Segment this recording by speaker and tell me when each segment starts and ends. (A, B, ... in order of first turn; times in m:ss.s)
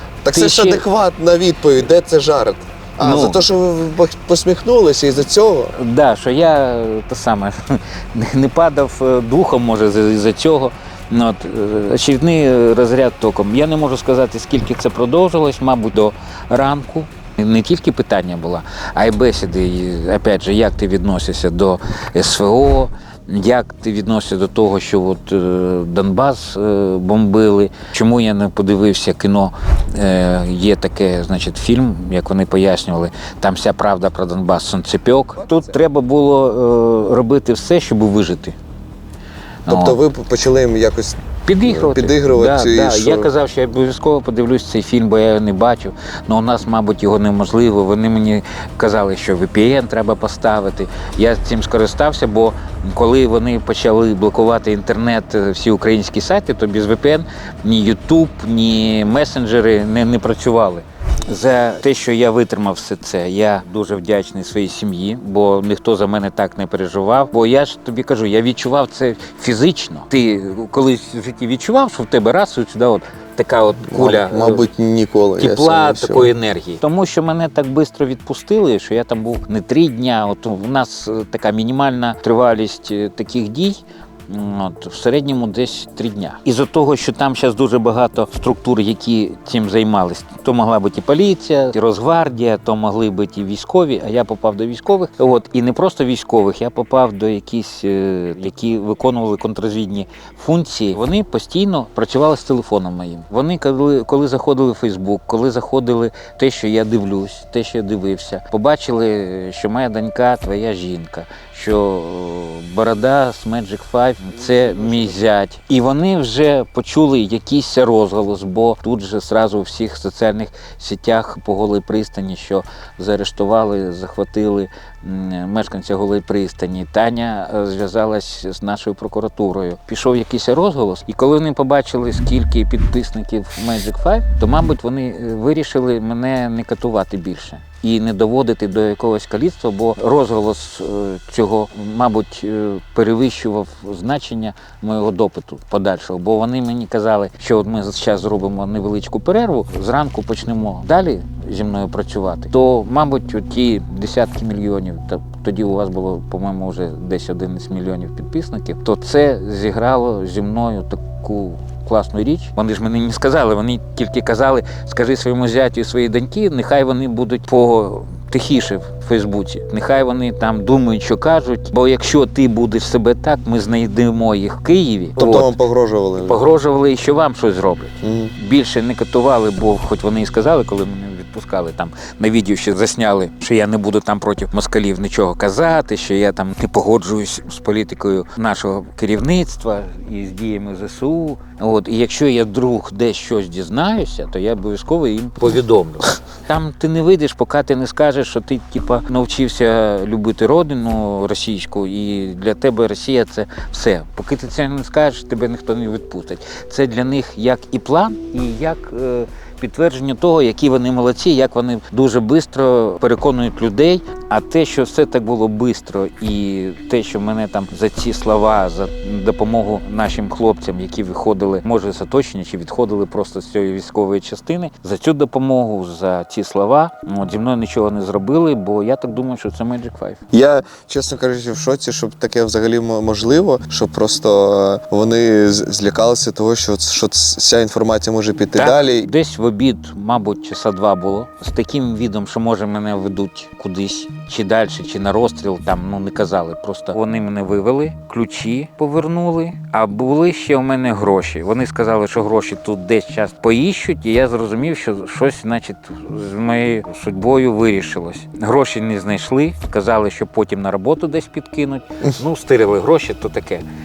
0:00.2-0:05.7 A
0:00.3-0:00.8 B
0:03.0-0:03.4 B
0:05.8-0:38.6 B
0:39.7-0:40.0 B
0:39.7-0:43.3 A
0:41.5-1:14.7 B
1:13.9-1:16.3 A
1:15.4-2:55.6 B
2:55.2-2:56.4 A
2:56.2-3:50.2 B
2:58.0-2:58.3 A
3:50.3-3:59.1 A
3:58.6-4:23.7 B